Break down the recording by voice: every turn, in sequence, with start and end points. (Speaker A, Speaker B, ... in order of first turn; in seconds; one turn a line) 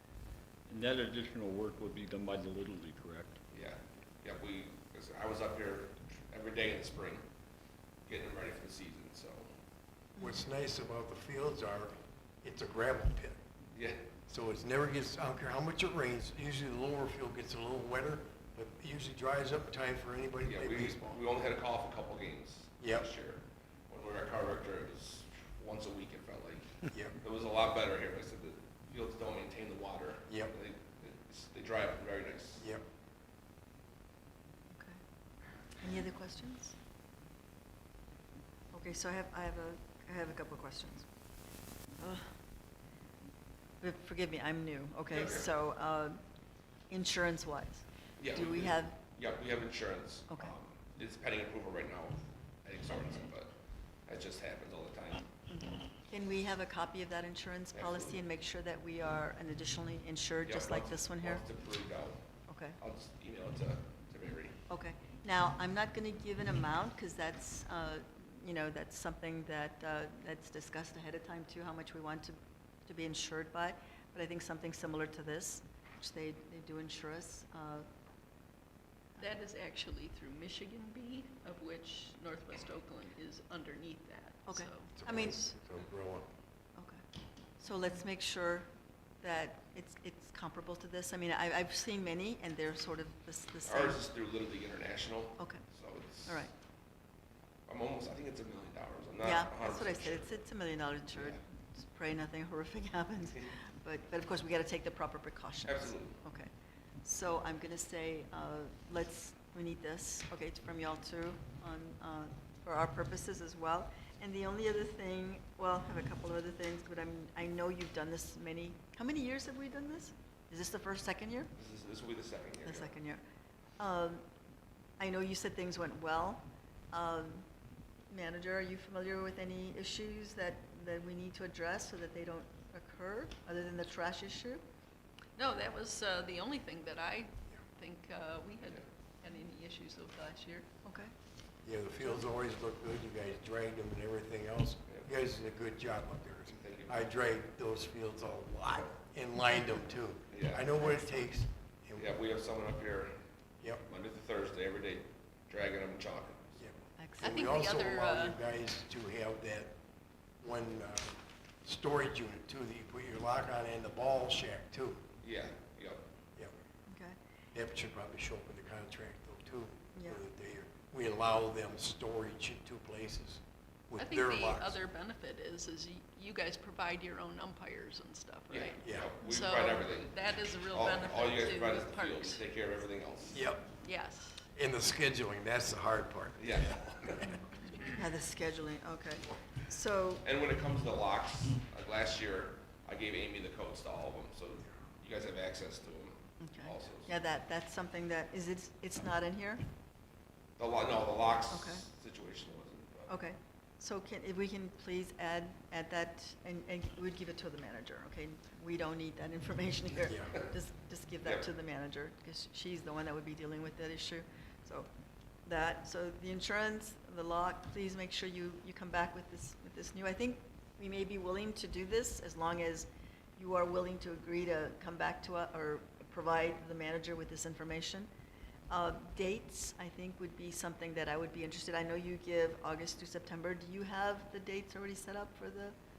Speaker A: 0.7-3.4
Speaker B: 3.5-7.2
Speaker B: 8.1-9.5
Speaker C: 10.2-13.4
Speaker B: 13.8-14.1
Speaker C: 14.3-21.2
Speaker B: 20.4-32.7
Speaker C: 22.8-23.1
Speaker C: 26.9-27.1
Speaker D: 35.8-36.8
Speaker D: 38.7-41.1
Speaker D: 42.0-42.3
Speaker D: 43.8-46.2
Speaker B: 45.1-45.5
Speaker D: 46.9-49.0
Speaker B: 48.2-53.5
Speaker B: 54.1-55.3
Speaker D: 55.5-61.4
Speaker B: 57.7-58.2
Speaker B: 60.5-62.2
Speaker D: 62.5-62.8
Speaker B: 62.8-64.6
Speaker D: 64.7-77.9
Speaker E: 79.2-84.9
Speaker D: 84.5-85.4
Speaker C: 85.0-86.3
Speaker D: 86.8-87.0
Speaker D: 87.6-88.7
Speaker D: 89.2-94.0
Speaker B: 93.7-96.5
Speaker D: 95.4-95.6
Speaker B: 97.7-100.4
Speaker D: 99.2-106.5
Speaker B: 101.2-101.4
Speaker B: 105.7-106.2
Speaker D: 107.0-121.5
Speaker B: 121.6-123.0
Speaker D: 122.6-123.2
Speaker D: 123.8-124.2
Speaker D: 125.0-127.5
Speaker D: 128.1-134.6
Speaker E: 135.4-140.7
Speaker D: 140.8-141.1
Speaker C: 141.7-152.1
Speaker B: 146.6-147.0
Speaker B: 150.3-150.7
Speaker D: 150.8-151.3
Speaker B: 152.0-153.2
Speaker B: 153.8-156.6
Speaker C: 156.6-159.7
Speaker D: 157.0-157.4
Speaker E: 157.2-158.4
Speaker C: 160.4-165.1
Speaker B: 165.2-166.0
Speaker D: 166.9-167.2
Speaker C: 167.5-174.8
Speaker D: 170.0-170.2
Speaker E: 174.0-182.4
Speaker B: 178.5-180.2
Speaker C: 178.8-179.1
Speaker B: 180.7-183.4
Speaker C: 183.3-183.7
Speaker E: 183.8-184.5
Speaker C: 184.6-186.6
Speaker B: 186.4-187.9
Speaker D: 187.9-190.2
Speaker B: 190.2-197.1
Speaker D: 196.4-199.6
Speaker B: 200.6-203.1
Speaker D: 201.5-201.8
Speaker D: 203.1-214.9
Speaker C: 210.1-210.4
Speaker D: 215.5-228.1
Speaker D: 228.7-235.8